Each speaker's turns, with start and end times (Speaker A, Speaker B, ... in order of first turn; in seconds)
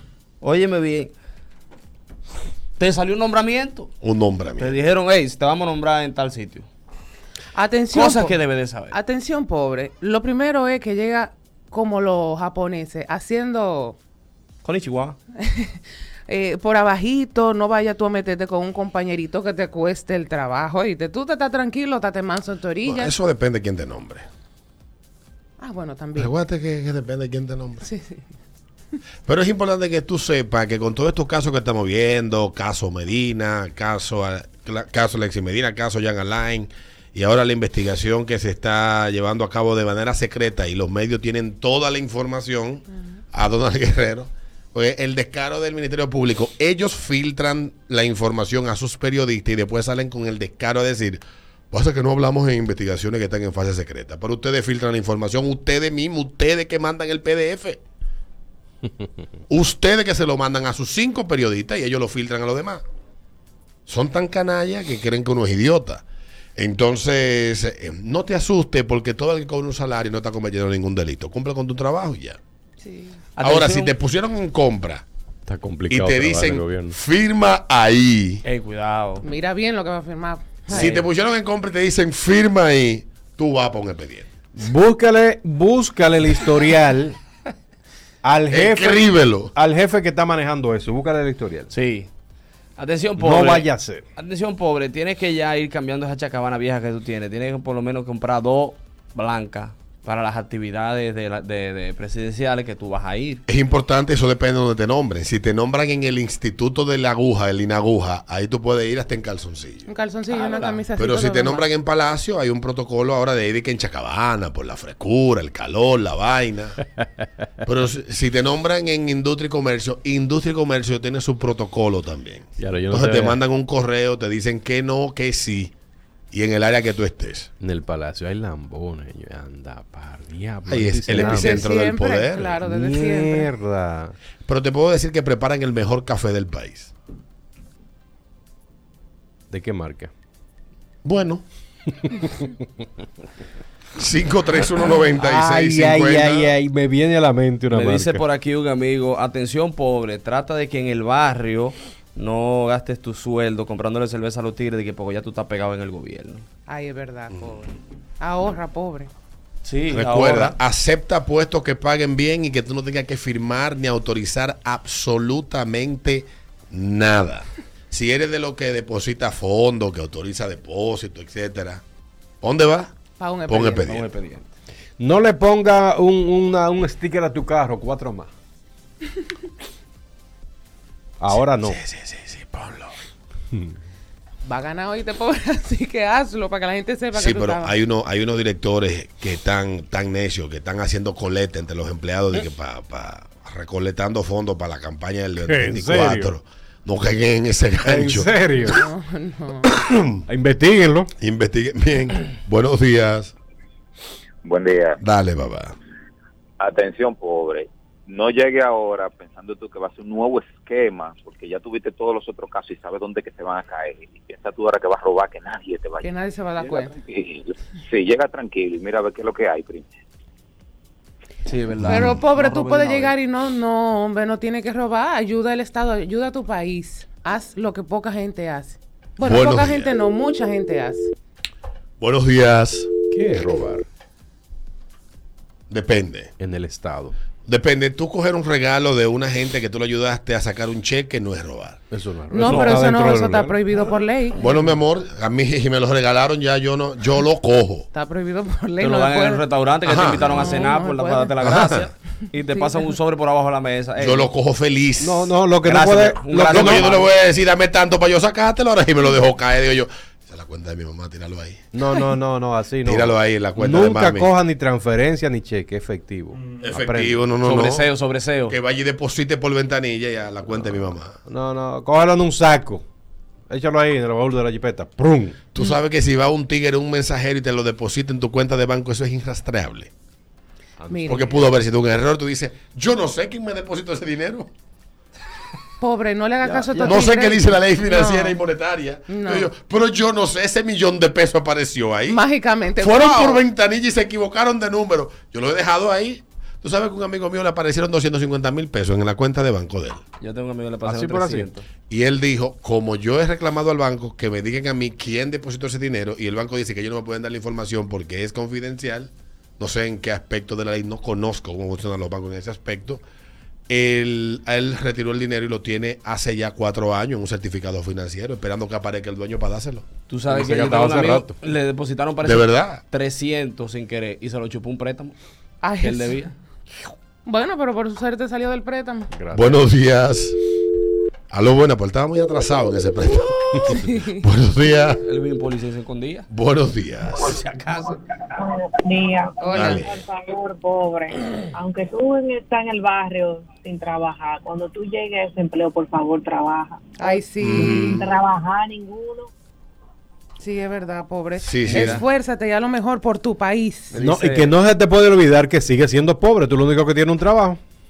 Speaker A: 0.4-1.1, 2.8-3.9, 4.6-6.7, 7.9-8.9, 14.6-15.2, 73.3-73.9, 78.4-79.3, 80.7-81.1, 91.7-92.1, 92.8-103.4, 110.3-110.8, 147.7-156.4, 159.6-160.6, 173.8-174.5, 221.4-223.1, 242.4-242.8, 248.8-254.3, 255.7-257.1, 267.4-268.5, 286.4-287.0, 300.2-301.6, 320.1-325.1, 325.8-326.3, 335.0-336.3, 337.2-338.0, 351.7-352.0, 353.9-354.5
Speaker B: 4.0-4.7, 22.8-24.2, 26.1-27.9, 29.2-57.8, 59.5-62.8, 63.9-66.0, 66.5-72.4, 73.4-75.0, 75.9-78.4, 80.7-84.3, 88.5-89.5, 103.5-109.9, 111.0-116.8, 117.6-125.7, 126.3-127.5, 130.7-132.6, 134.4-136.9, 141.0-141.4, 144.0-146.5, 159.9-171.8, 172.4-172.9, 173.4-174.1, 181.6-182.9, 187.1-198.8, 201.2-203.3, 205.0-205.7, 221.8-222.2, 229.2-229.9, 232.0-232.9, 235.7-236.3, 237.4-241.8, 244.3-247.9, 249.8-250.7, 251.4-251.9, 254.0-255.3, 256.5-261.6, 262.8-264.3, 266.6-267.9, 268.5-271.2, 275.5-279.9, 281.1-284.5, 286.8-292.2, 292.8-300.0, 301.9-313.0, 313.7-319.8, 322.2-322.8, 329.3-330.4, 331.3-335.0, 336.3-337.4, 339.5-340.0, 347.4-348.1, 351.4-352.0
Speaker C: 7.5-14.0, 15.4-23.1, 25.6-26.3, 27.8-28.2, 72.8-73.2, 79.2-80.9, 109.9-111.6, 131.1-133.5, 156.7-159.1, 173.2-173.9, 184.4-187.7, 198.7-199.7, 216.0-217.0, 221.8-231.1, 242.3-244.5, 247.9-249.4, 250.3-251.6, 280.9-281.3, 285.8-288.4, 289.1-289.5, 292.1-293.4, 325.6-326.2, 327.2-329.1, 333.7-334.0, 339.4-339.8, 347.0-348.0, 350.4-353.9
Speaker D: 75.5-76.9, 84.5-87.2, 88.2-91.7, 93.2-94.0, 122.6-123.4, 127.6-131.6, 132.6-134.1, 139.5-140.1, 145.2-148.2, 175.0-178.3, 181.2-181.8, 195.4-196.3, 197.8-198.8, 200.2-201.1, 233.1-233.8, 236.4-237.1, 241.9-243.6, 255.0-256.9, 261.7-267.2, 271.2-272.8, 273.5-275.4, 280.8-281.2, 300.8-301.5, 320.3-321.3, 329.1-329.5, 354.0-357.6
Speaker E: 204.4-205.0, 206.6-219.9
Speaker F: 338.4-349.3